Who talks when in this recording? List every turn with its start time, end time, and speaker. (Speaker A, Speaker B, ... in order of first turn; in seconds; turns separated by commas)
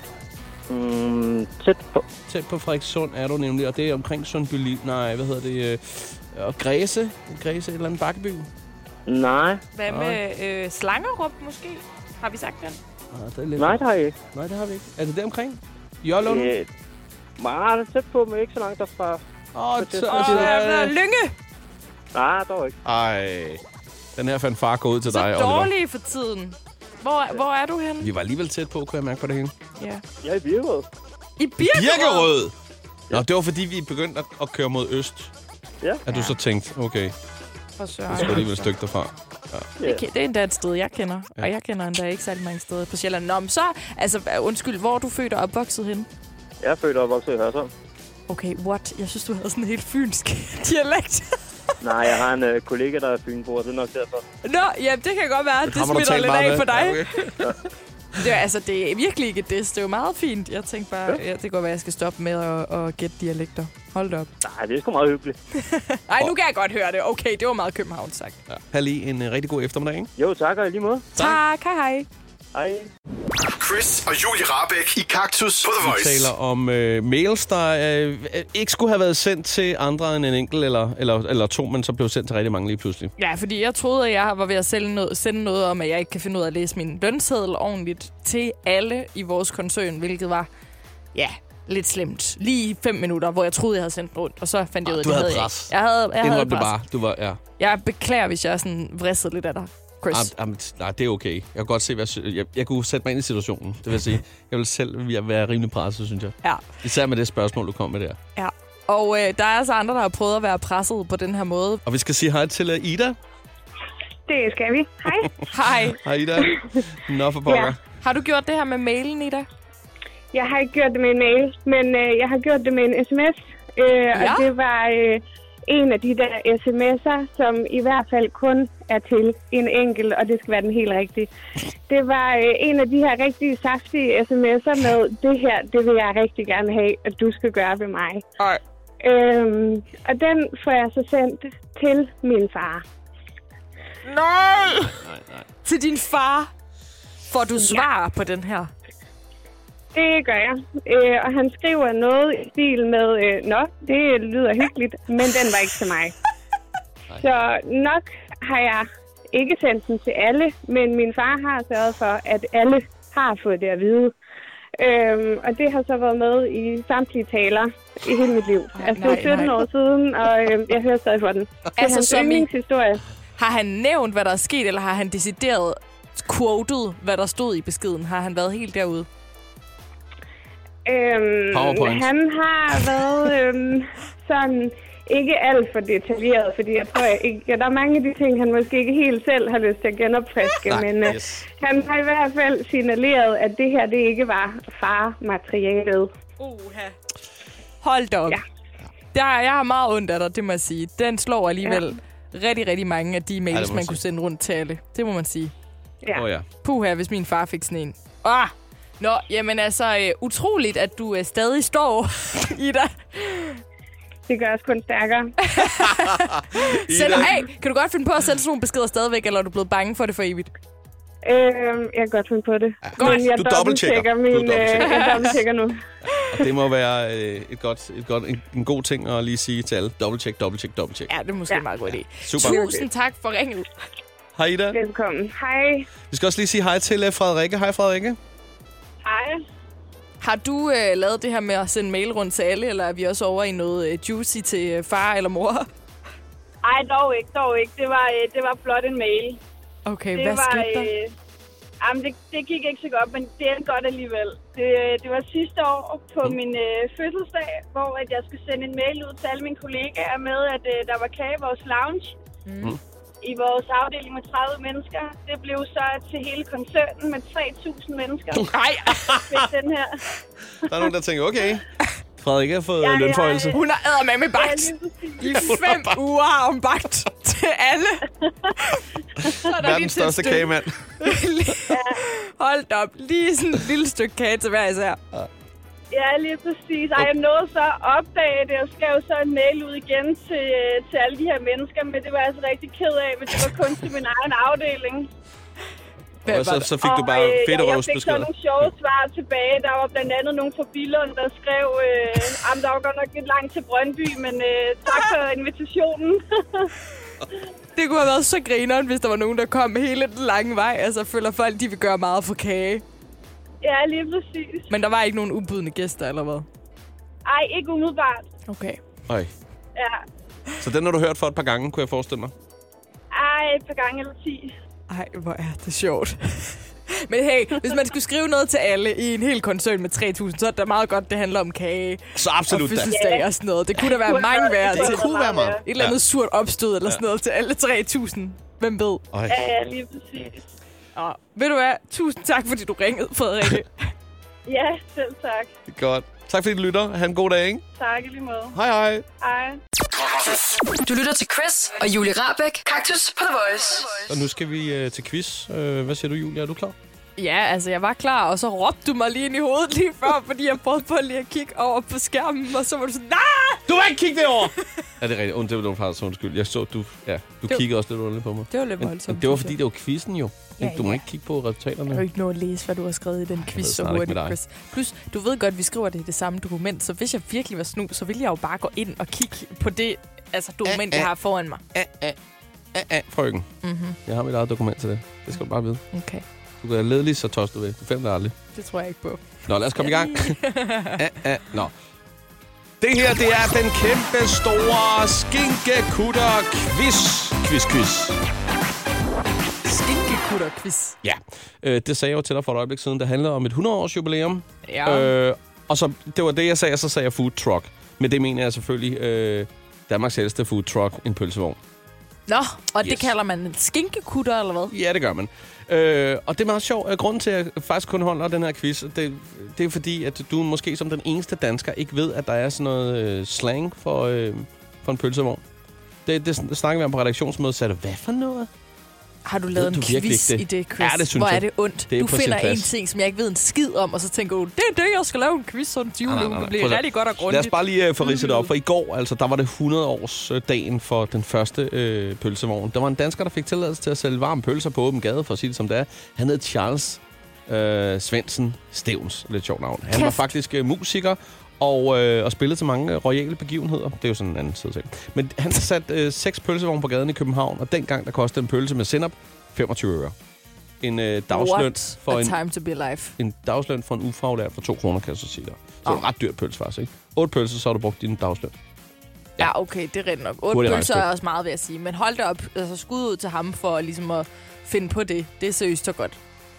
Speaker A: 0.7-2.1, Speaker B: 2.3-8.5, Speaker A: 9.1-9.6, Speaker C: 9.8-12.8, Speaker B: 9.9-10.2, Speaker B: 13.1-16.5, Speaker A: 13.6-14.2, Speaker A: 16.2-16.7, Speaker A: 17.4-19.2, Speaker B: 19.5-20.9, Speaker A: 19.8-20.5, Speaker C: 20.1-21.3, Speaker A: 22.1-22.8, Speaker B: 22.9-23.6, Speaker B: 24.2-25.7, Speaker C: 25.1-28.1, Speaker B: 28.0-29.5, Speaker C: 29.8-30.0, Speaker A: 30.2-30.9, Speaker C: 31.4-32.3, Speaker B: 31.7-32.5, Speaker B: 33.1-35.3, Speaker B: 36.1-37.1, Speaker C: 36.1-36.4, Speaker C: 37.8-38.7, Speaker B: 38.1-39.7, Speaker C: 39.8-46.1, Speaker A: 46.6-47.7, Speaker C: 48.3-51.4, Speaker A: 51.8-54.2, Speaker C: 54.4-57.3, Speaker B: 55.6-57.6, Speaker C: 58.2-64.3, Speaker A: 64.4-65.4, Speaker C: 65.6-68.4, Speaker B: 68.5-70.1, Speaker A: 70.2-71.1, Speaker C: 71.2-72.1, Speaker A: 72.5-72.9, Speaker D: 73.5-76.3, Speaker B: 75.8-83.1, Speaker C: 83.2-90.5, Speaker C: 91.2-96.8, Speaker B: 94.9-97.4, Speaker C: 97.6-100.3, Speaker B: 100.1-108.2, Speaker C: 108.4-111.8, Speaker B: 111.8-113.2, Speaker E: 114.3-115.3, Speaker C: 115.5-116.0, Speaker B: 116.0-117.8, Speaker E: 117.5-117.7, Speaker C: 118.0-119.5, Speaker E: 120.3-131.3, Speaker C: 124.1-124.5, Speaker E: 131.9-138.2, Speaker E: 139.0-142.8, Speaker C: 144.1-145.0, Speaker B: 145.0-145.4, Speaker C: 145.7-146.5, Speaker C: 147.3-148.7, Speaker E: 149.9-156.1, Speaker E: 157.2-164.1, Speaker E: 164.8-173.0, Speaker C: 168.7-169.7, Speaker C: 171.8-172.5, Speaker C: 173.4-179.1, Speaker E: 180.9-196.1, Speaker B: 181.5-182.1, Speaker B: 190.7-191.4, Speaker C: 196.4-196.9, Speaker C: 197.8-198.4, Speaker C: 199.1-205.5, Speaker B: 203.5-204.0, Speaker B: 206.2-206.4, Speaker C: 206.6-213.6, Speaker E: 214.3-215.3, Speaker C: 215.4-220.5, Speaker B: 215.9-217.3, Speaker E: 221.2-225.8, Speaker B: 222.8-225.3, Speaker C: 223.0-223.3, Speaker C: 224.8-225.4, Speaker B: 226.2-231.1, Speaker C: 231.1-233.7, Speaker B: 232.2-232.8, Speaker B: 234.4-234.8, Speaker E: 234.7-235.9, Speaker B: 236.1-238.2, Speaker F: 239.0-239.4, Speaker C: 240.2-245.7, Speaker F: 246.6-249.4, Speaker C: 249.9-250.9, Speaker F: 250.1-251.1, Speaker F: 251.8-262.2, Speaker C: 262.5-262.8, Speaker F: 263.2-268.6, Speaker C: 268.5-269.2, Speaker B: 269.0-269.4, Speaker F: 269.1-270.0, Speaker B: 270.6-271.6, Speaker B: 272.2-273.6, Speaker F: 272.8-273.6, Speaker C: 273.5-278.1, Speaker F: 274.3-275.4, Speaker B: 275.3-276.0, Speaker C: 278.6-285.0, Speaker B: 279.2-280.9, Speaker F: 281.7-282.0, Speaker F: 285.9-295.1, Speaker C: 296.3-296.7, Speaker B: 296.3-298.7, Speaker F: 296.8-306.7, Speaker C: 307.8-312.8, Speaker F: 313.6-314.7, Speaker C: 314.7-316.5, Speaker F: 317.3-318.2, Speaker C: 318.5-318.8, Speaker F: 319.8-320.0, Speaker B: 320.6-322.3, Speaker F: 323.1-324.5, Speaker C: 324.9-335.1, Speaker B: 332.2-332.9, Speaker F: 332.9-335.6, Speaker B: 334.7-336.0, Speaker C: 335.6-339.0, Speaker B: 339.1-339.4, Speaker F: 339.3-340.4, Speaker C: 341.0-343.9, Speaker F: 344.5-345.5, Speaker B: 345.7-347.6, Speaker F: 347.8-348.6, Speaker B: 348.5-349.1, Speaker F: 349.2-349.6, Speaker G: 350.7-354.1, Speaker B: 354.1-356.8, Speaker C: 357.2-363.7, Speaker B: 363.7-372.0, Speaker C: 368.5-369.6, Speaker C: 370.6-371.0, Speaker C: 371.9-381.6, Speaker B: 373.4-374.4, Speaker B: 380.7-381.1, Speaker B: 381.7-382.2, Speaker B: 382.7-383.5, Speaker C: 383.6-384.0, Speaker B: 384.1-385.8, Speaker C: 385.9-386.2, Speaker B: 386.6-388.3, Speaker C: 388.6-391.0, Speaker B: 389.5-390.4, Speaker B: 391.0-391.7, Speaker B: 392.8-398.2, Speaker C: 399.6-400.9, Speaker B: 401.0-411.6, Speaker C: 404.7-405.1, Speaker C: 412.3-414.7, Speaker B: 412.8-413.1, Speaker B: 414.7-425.4, Speaker B: 426.1-428.5, Speaker C: 429.3-438.5, Speaker B: 429.5-432.7, Speaker B: 436.1-460.1, Speaker C: 449.9-450.3, Speaker B: 460.8-462.4, Speaker C: 461.3-463.1, Speaker B: 463.2-468.5, Speaker C: 469.4-476.2, Speaker B: 470.5-471.1